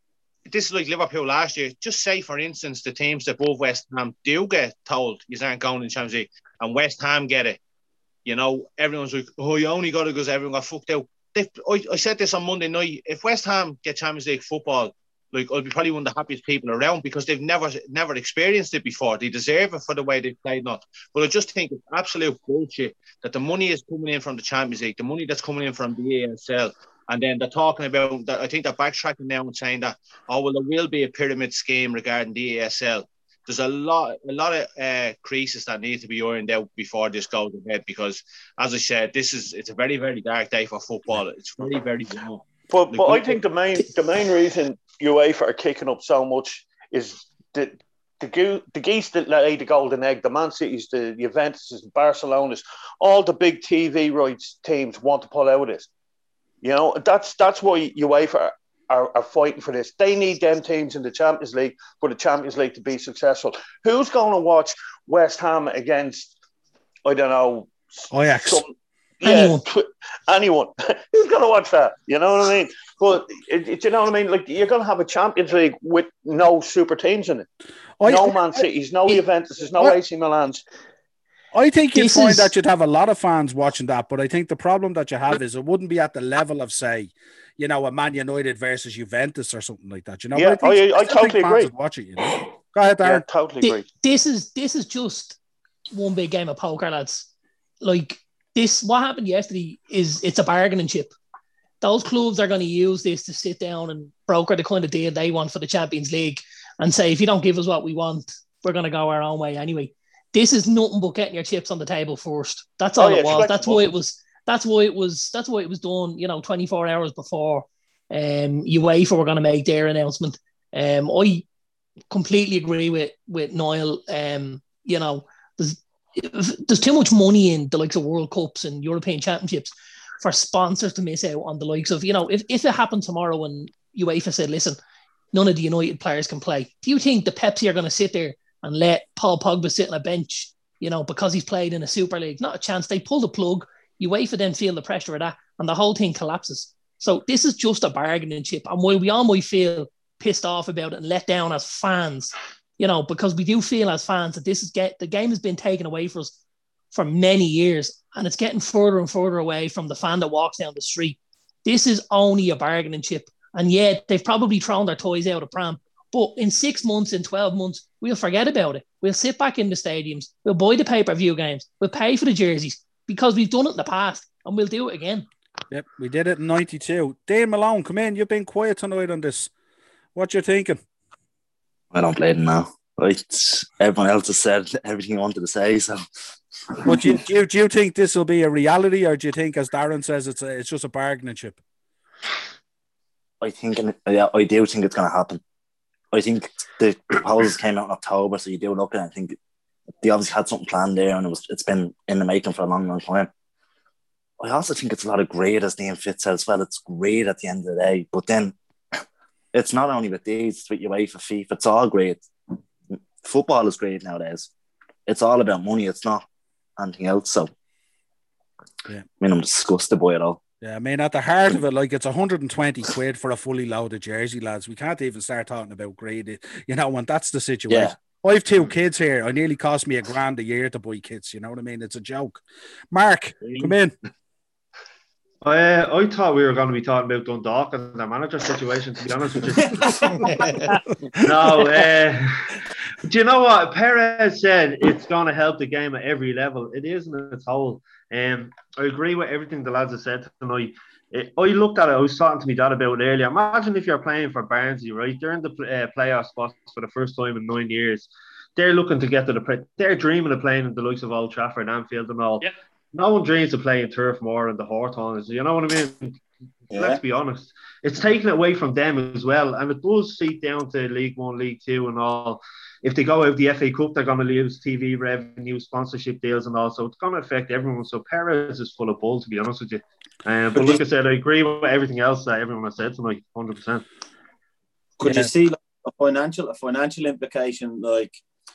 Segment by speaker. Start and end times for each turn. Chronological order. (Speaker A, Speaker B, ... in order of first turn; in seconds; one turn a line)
Speaker A: 0.5-7.6
Speaker A: 8.2-43.4
Speaker B: 42.7-55.9
Speaker B: 56.6-66.3
Speaker B: 67.0-77.5
Speaker C: 68.1-68.6
Speaker D: 69.2-69.6
Speaker C: 78.0-78.6
Speaker B: 78.0-80.6
Speaker C: 81.5-93.2
Speaker D: 81.9-82.5
Speaker B: 90.3-91.7
Speaker B: 93.0-93.8
Speaker D: 93.6-95.4
Speaker D: 95.9-97.3
Speaker D: 97.8-101.1
Speaker D: 101.8-121.4
Speaker B: 113.0-113.9
Speaker D: 122.1-134.8
Speaker D: 135.3-156.3
Speaker D: 156.9-175.3
Speaker C: 175.7-179.5
Speaker C: 180.2-180.8
Speaker E: 181.9-186.0
Speaker E: 186.8-187.2
Speaker C: 186.8-191.6
Speaker E: 193.4-195.4
Speaker E: 196.1-199.3
Speaker E: 200.0-203.3
Speaker E: 204.4-208.5
Speaker E: 209.5-212.2
Speaker E: 213.2-214.5
Speaker E: 215.1-216.2
Speaker E: 216.8-217.5
Speaker E: 219.2-220.4
Speaker C: 220.6-233.9
Speaker E: 227.7-227.9
Speaker F: 233.4-233.7
Speaker F: 235.4-240.7
Speaker F: 241.2-242.5
Speaker F: 243.0-266.2
Speaker F: 266.7-283.9
Speaker G: 266.7-267.0
Speaker C: 285.0-285.3
Speaker G: 285.0-288.2